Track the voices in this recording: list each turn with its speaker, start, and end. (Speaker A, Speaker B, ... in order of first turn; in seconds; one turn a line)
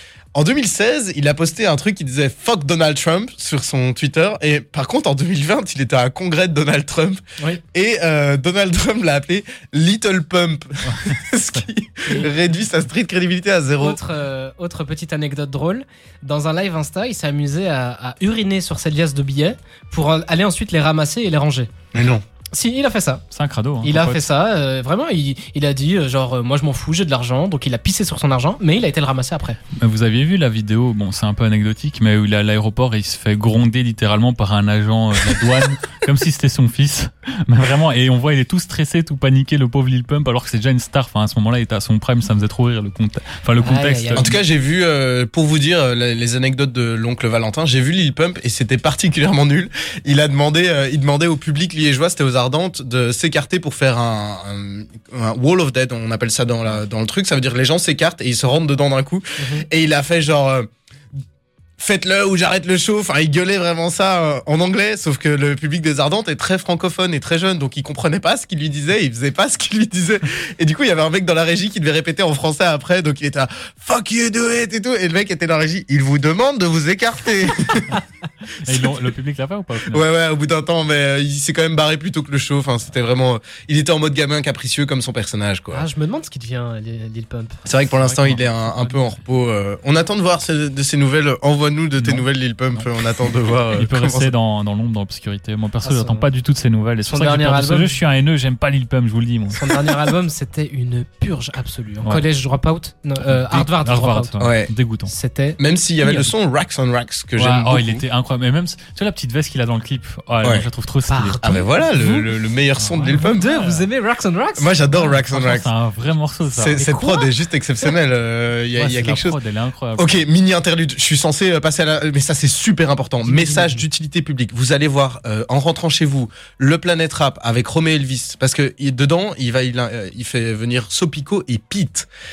Speaker A: 0.3-7.2
Speaker A: 7.7-14.0
Speaker B: 10.8-11.6
Speaker C: 12.1-12.3
Speaker C: 13.8-21.7
Speaker A: 21.9-22.2
Speaker C: 22.5-23.2
Speaker B: 23.3-24.2
Speaker C: 23.8-29.6
Speaker B: 29.8-44.3
Speaker C: 43.6-44.3
Speaker A: 44.1-60.7
Speaker C: 59.4-59.6
Speaker A: 61.8-78.0
Speaker B: 78.6-80.0
Speaker A: 78.7-78.9
Speaker A: 79.9-85.8
Speaker C: 85.7-87.7
Speaker A: 87.6-94.3
Speaker B: 87.9-89.1
Speaker B: 92.0-92.9
Speaker B: 93.8-99.7
Speaker C: 95.8-96.3
Speaker C: 97.1-98.0
Speaker C: 99.5-104.4
Speaker B: 103.2-105.1
Speaker A: 104.4-104.7
Speaker C: 105.1-106.3
Speaker A: 105.6-108.0
Speaker B: 107.4-111.5
Speaker A: 110.4-110.7
Speaker C: 111.1-112.3
Speaker A: 111.4-113.6
Speaker B: 112.8-113.8
Speaker C: 113.1-114.8
Speaker A: 114.6-115.7
Speaker B: 114.9-116.8
Speaker A: 116.5-119.4
Speaker C: 116.8-117.3
Speaker B: 118.7-120.2
Speaker A: 120.0-132.1
Speaker C: 123.2-123.8